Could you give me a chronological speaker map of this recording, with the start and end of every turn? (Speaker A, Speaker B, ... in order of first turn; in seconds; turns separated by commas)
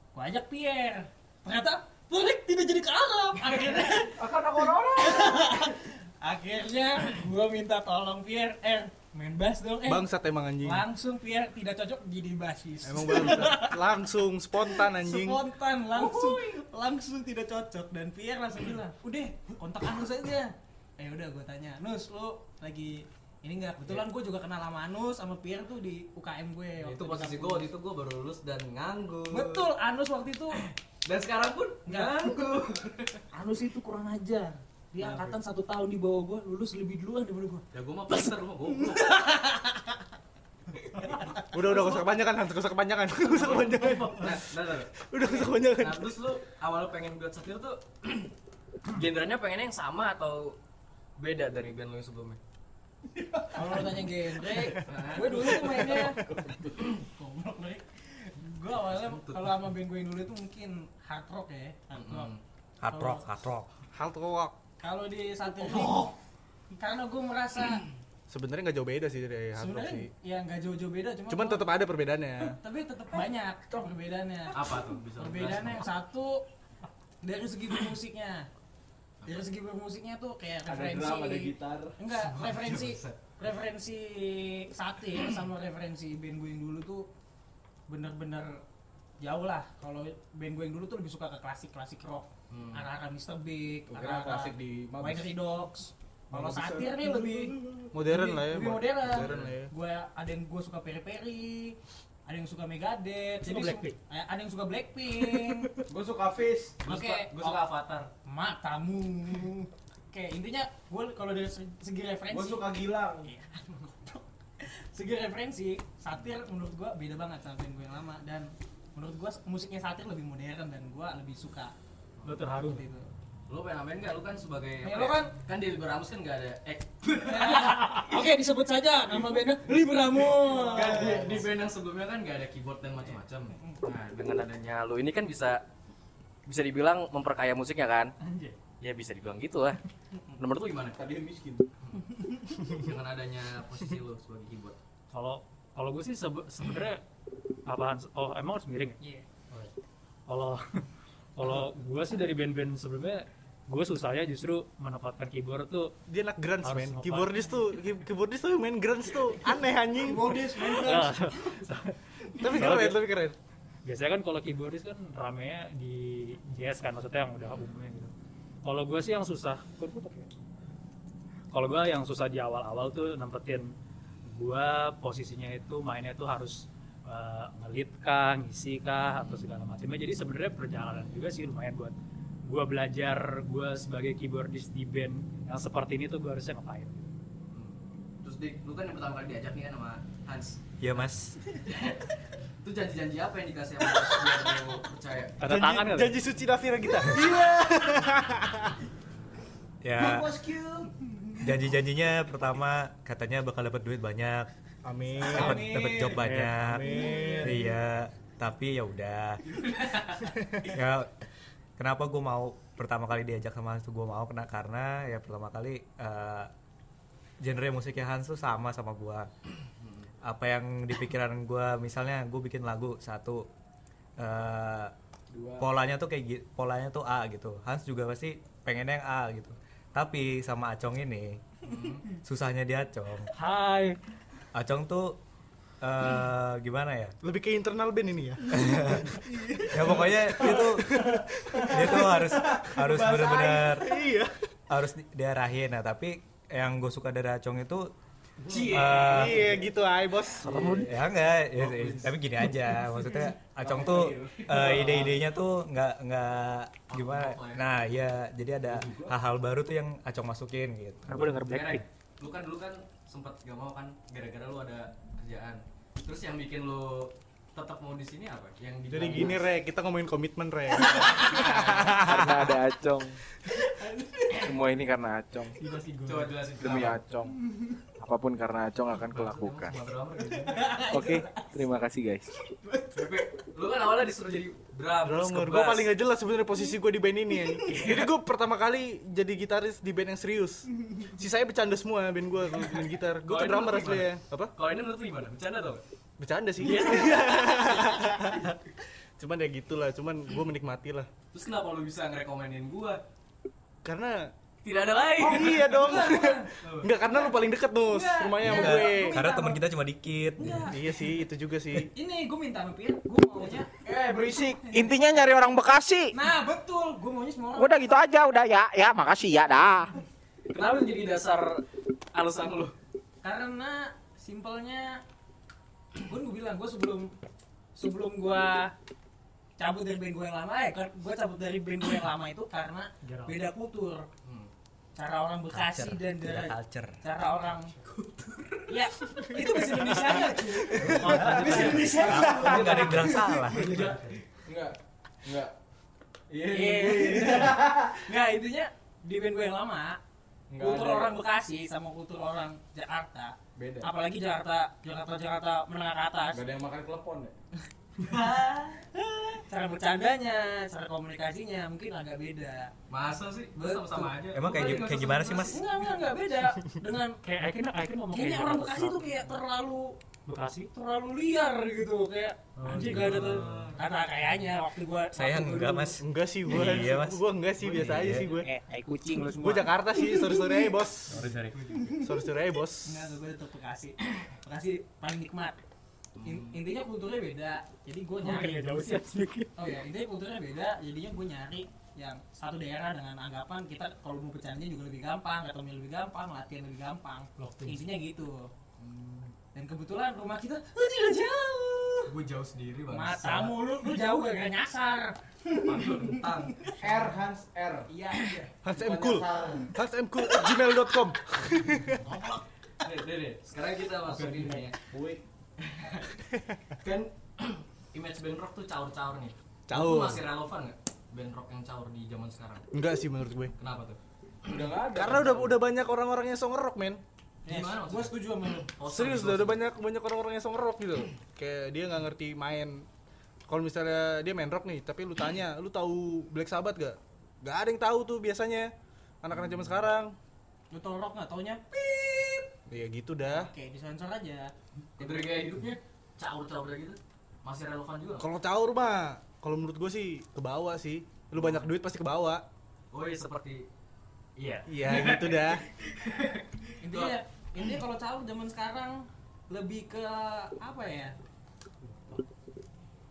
Speaker A: 0.1-10.1, Speaker B: 3.4-3.9, Speaker C: 4.1-5.6, Speaker D: 9.8-10.8, Speaker A: 10.6-13.8, Speaker D: 12.8-15.4, Speaker A: 14.6-27.7, Speaker B: 26.8-29.7, Speaker A: 29.3-30.6, Speaker B: 30.5-33.2, Speaker A: 31.9-32.2, Speaker A: 33.3-40.0, Speaker E: 35.0-35.4, Speaker B: 37.7-39.2, Speaker A: 40.9-42.0, Speaker D: 41.5-44.5, Speaker B: 43.2-48.3, Speaker D: 45.1-46.1, Speaker B: 48.9-50.5, Speaker B: 51.2-52.4, Speaker C: 53.2-53.8, Speaker A: 53.5-56.2, Speaker B: 54.8-55.8, Speaker D: 55.3-56.0, Speaker C: 55.5-56.8, Speaker A: 57.0-62.3, Speaker B: 58.9-59.6, Speaker B: 61.9-62.4, Speaker F: 62.8-63.7, Speaker A: 62.9-63.2, Speaker D: 63.9-64.5, Speaker A: 64.8-66.1, Speaker C: 65.6-66.1, Speaker A: 66.8-67.8, Speaker D: 68.3-70.1, Speaker A: 69.5-71.7, Speaker D: 71.3-72.6, Speaker A: 72.5-76.4, Speaker B: 74.5-75.8, Speaker A: 77.2-78.5, Speaker A: 79.2-87.1, Speaker C: 80.7-82.0, Speaker B: 82.2-83.2, Speaker A: 87.9-88.6, Speaker A: 89.2-105.7, Speaker B: 92.5-92.9, Speaker C: 93.9-95.3, Speaker C: 96.3-97.9, Speaker D: 97.9-99.7, Speaker B: 99.1-99.5, Speaker E: 103.4-104.0, Speaker E: 105.2-105.8, Speaker C: 105.9-106.8, Speaker B: 106.8-108.1, Speaker A: 106.8-107.6, Speaker A: 108.2-121.7, Speaker C: 112.3-113.3, Speaker B: 122.2-122.4, Speaker E: 122.2-122.8, Speaker A: 122.6-123.1, Speaker B: 123.5-128.0, Speaker A: 124.8-125.3, Speaker A: 127.2-131.4, Speaker C: 130.4-131.5, Speaker B: 130.7-135.6, Speaker A: 133.5-133.8, Speaker B: 136.4-138.1, Speaker E: 138.2-138.6, Speaker B: 138.8-139.8, Speaker A: 140.1-140.4, Speaker B: 140.4-141.0, Speaker C: 140.9-141.7, Speaker B: 141.8-144.8, Speaker A: 142.1-142.6, Speaker E: 145.1-147.0, Speaker E: 147.7-149.0, Speaker A: 149.0-149.2, Speaker E: 150.3-150.6, Speaker E: 151.3-155.9, Speaker D: 156.1-160.4, Speaker E: 156.6-157.5, Speaker A: 160.0-161.6, Speaker E: 160.6-163.0, Speaker D: 162.4-163.3, Speaker E: 163.8-168.1, Speaker E: 168.6-170.3, Speaker E: 171.5-173.7, Speaker E: 174.3-181.9, Speaker E: 182.4-187.1, Speaker B: 187.5-190.8, Speaker F: 190.8-191.4, Speaker B: 191.6-195.4, Speaker E: 195.4-196.2, Speaker D: 195.4-198.7, Speaker C: 197.1-197.8, Speaker F: 199.8-200.3, Speaker C: 200.0-200.9, Speaker F: 201.4-204.5, Speaker D: 204.8-205.7, Speaker F: 205.2-209.6, Speaker A: 205.3-206.2, Speaker E: 206.2-206.6, Speaker D: 206.5-207.6, Speaker A: 206.8-207.5, Speaker C: 207.1-207.5, Speaker B: 209.6-210.2, Speaker F: 210.6-211.1, Speaker F: 211.8-216.5, Speaker F: 217.4-219.3, Speaker B: 219.8-220.1, Speaker F: 220.2-223.5, Speaker F: 224.2-224.9, Speaker C: 225.3-225.7, Speaker F: 225.6-231.4, Speaker B: 231.6-232.1, Speaker F: 232.2-233.3, Speaker E: 233.3-234.0, Speaker F: 234.5-235.2, Speaker F: 235.8-237.2, Speaker D: 237.2-239.2, Speaker F: 238.5-243.9, Speaker D: 239.8-244.3, Speaker C: 240.1-240.9, Speaker C: 241.8-243.8, Speaker F: 244.7-247.9, Speaker C: 248.5-249.7, Speaker B: 248.6-249.4, Speaker F: 248.7-249.5, Speaker D: 248.7-250.8, Speaker F: 250.4-261.2, Speaker B: 251.5-252.4, Speaker C: 253.6-255.1, Speaker B: 256.9-257.9, Speaker C: 258.7-259.1, Speaker E: 261.1-261.8, Speaker B: 261.4-269.4, Speaker D: 268.9-272.5, Speaker B: 270.7-272.1, Speaker G: 271.9-273.2, Speaker A: 273.7-274.4, Speaker G: 274.3-275.6, Speaker A: 275.6-276.2, Speaker B: 276.0-277.0, Speaker G: 276.6-277.3, Speaker G: 278.0-279.7, Speaker B: 279.1-280.8, Speaker A: 280.4-281.6, Speaker G: 280.8-282.3, Speaker A: 282.7-283.0, Speaker B: 282.9-285.9, Speaker D: 285.0-294.5, Speaker B: 287.6-288.1, Speaker B: 293.2-295.8, Speaker D: 296.2-298.6, Speaker B: 296.6-298.5, Speaker D: 299.2-301.1, Speaker B: 301.3-303.0, Speaker D: 303.8-304.3, Speaker B: 304.6-306.1, Speaker D: 305.2-309.2, Speaker A: 305.6-306.5, Speaker B: 306.6-306.9, Speaker A: 307.1-309.6, Speaker F: 308.4-310.7, Speaker A: 310.4-310.8, Speaker D: 310.6-311.9, Speaker A: 311.8-313.7, Speaker C: 313.8-314.7, Speaker G: 313.9-316.1, Speaker A: 316.1-318.0, Speaker G: 317.6-319.9, Speaker B: 320.5-321.6, Speaker B: 322.1-322.7, Speaker A: 323.2-325.0, Speaker A: 326.1-327.1, Speaker A: 327.7-328.7, Speaker A: 329.6-334.0, Speaker E: 333.0-333.4, Speaker B: 334.2-334.5, Speaker A: 334.9-337.7, Speaker F: 335.5-337.0, Speaker B: 337.7-338.6, Speaker A: 338.7-343.1, Speaker E: 340.8-342.9, Speaker F: 340.8-341.4, Speaker C: 341.2-345.5, Speaker F: 342.1-343.9, Speaker E: 343.5-344.2, Speaker C: 346.3-348.0, Speaker A: 346.4-350.0, Speaker C: 350.5-351.1, Speaker A: 350.6-356.4, Speaker C: 353.6-353.9, Speaker C: 356.3-357.3, Speaker A: 358.0-362.7, Speaker B: 362.9-365.6, Speaker A: 363.6-364.2, Speaker F: 364.3-365.6, Speaker A: 365.5-367.2, Speaker E: 367.2-369.2, Speaker A: 368.1-370.0, Speaker E: 370.2-370.7, Speaker A: 370.7-376.6, Speaker B: 372.6-373.7, Speaker E: 372.6-373.6, Speaker F: 375.1-378.2, Speaker D: 376.0-378.5, Speaker B: 377.6-378.3, Speaker A: 378.2-380.7, Speaker D: 379.3-381.3, Speaker B: 381.1-381.9, Speaker A: 381.7-382.3, Speaker D: 381.9-383.1, Speaker A: 382.8-385.6, Speaker B: 386.1-386.6, Speaker A: 386.2-389.0, Speaker E: 388.2-389.5, Speaker A: 389.6-398.5, Speaker E: 397.4-397.9, Speaker B: 398.8-399.3, Speaker A: 399.5-402.1, Speaker B: 402.1-403.6, Speaker A: 402.9-407.1, Speaker B: 405.5-406.5, Speaker C: 406.8-407.9, Speaker A: 407.9-408.5, Speaker D: 408.6-412.0, Speaker C: 408.7-409.7, Speaker B: 412.0-414.8, Speaker C: 414.0-415.2, Speaker B: 415.6-416.1, Speaker B: 416.8-422.6, Speaker D: 419.7-420.2, Speaker D: 422.7-423.5, Speaker B: 423.6-424.0, Speaker C: 424.4-425.7, Speaker D: 424.9-427.0, Speaker B: 427.4-428.1, Speaker A: 427.4-428.7, Speaker B: 428.8-429.6, Speaker D: 428.8-432.9, Speaker D: 433.5-438.7, Speaker D: 439.2-440.1, Speaker B: 439.3-439.7, Speaker A: 440.7-442.5, Speaker D: 442.7-443.5, Speaker A: 443.3-445.6, Speaker B: 445.0-448.3, Speaker D: 448.2-452.4, Speaker B: 451.3-451.7, Speaker B: 452.9-453.6, Speaker B: 454.4-457.2, Speaker D: 454.7-455.6, Speaker A: 456.8-461.1, Speaker E: 461.8-462.2